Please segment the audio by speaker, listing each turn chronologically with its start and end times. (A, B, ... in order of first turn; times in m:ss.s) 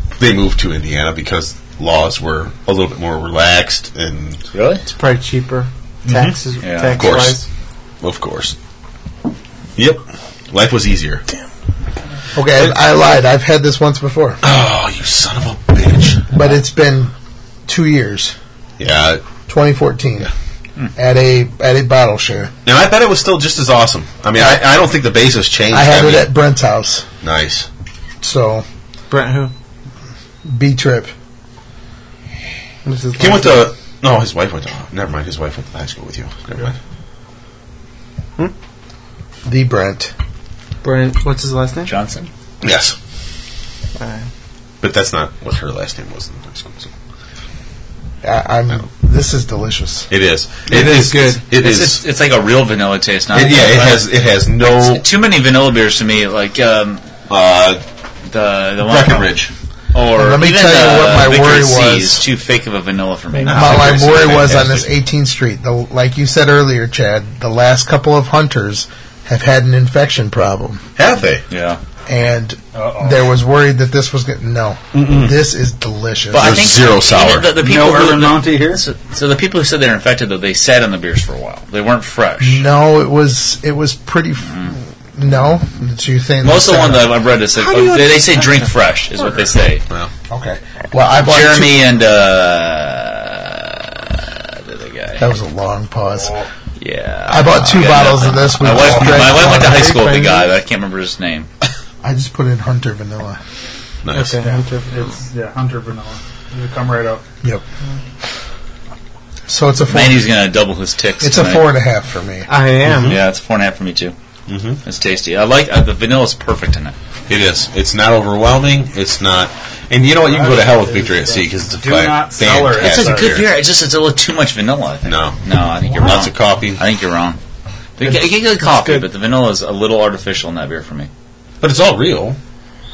0:00.2-0:04.4 A
0:04.5-0:04.8 B
0:04.9-0:07.4 C
0:06.0-0:06.4 D
0:06.6-0:07.0 B
0:06.9-0:07.4 A
0:08.0-0:08.5 A
0:09.8-0:11.2 A
0:12.3-0:14.4 E
0:14.4-0:16.3 A
0:16.3-0:17.1 E
0:17.7-0:18.4 E
0:18.8-0:19.2 A
0:19.5-0:20.3 E
0:21.0-0:22.5 E
0:22.6-0:26.3 A
0:24.3-0:24.7 E
0:25.7-0:27.1 E
0:27.2-0:27.7 A
0:28.2-0:28.6 E
0:29.1-0:29.5 C
0:30.4-0:31.1 E
0:32.8-0:33.7 C
0:33.2-0:36.7 A
0:39.4-0:40.1 E
0:40.8-0:41.9 C
0:41.9-0:42.3 B
0:42.6-0:43.0 A
0:44.0-0:44.2 C
0:44.8-0:46.9 A
0:48.2-0:50.1 E
0:50.1-0:52.0 A
0:50.7-0:51.4 C
0:51.5-0:54.1 B
0:53.3-0:55.0 A
0:54.7-0:57.0 B
0:57.3-0:57.8 A
0:58.3-0:59.4 B
0:58.8-0:59.5 A
0:59.9-1:04.7 B
1:00.1-1:02.2 E
1:03.4-1:04.9 A
1:03.5-1:10.8 E
1:11.0-1:11.4 A
1:11.5-1:11.8 B
1:12.1-1:16.6 E
1:12.7-1:13.3 D
1:14.9-1:15.3 A
1:16.3-1:22.6 B
1:16.4-1:17.6 A
1:17.6-1:18.8 D
1:22.4-1:27.2 E
1:26.4-1:29.8 B
1:29.2-1:30.1 A
1:30.3-1:31.8 E
1:31.2-1:35.2 B
1:35.2-1:36.4 E
1:36.2-1:36.5 D
1:36.8-1:41.5 B
1:37.3-1:39.9 E
1:38.9-1:40.5 C
1:42.0-1:43.4 E
1:44.0-1:44.4 A
1:44.1-1:44.9 C
1:44.4-1:47.2 D
1:49.5-1:50.3 E
1:49.9-1:51.7 B
1:51.2-1:52.5 E
1:52.5-1:53.2 C
1:52.8-1:53.2 A
1:53.1-1:54.1 B
1:54.5-1:54.8 A
1:54.8-1:57.0 B
1:57.3-2:03.6 A
2:00.3-2:03.4 D
2:02.7-2:07.4 B
2:05.0-2:06.8 A
2:08.0-2:11.1 B
2:08.0-2:09.1 C
2:11.6-2:12.4 A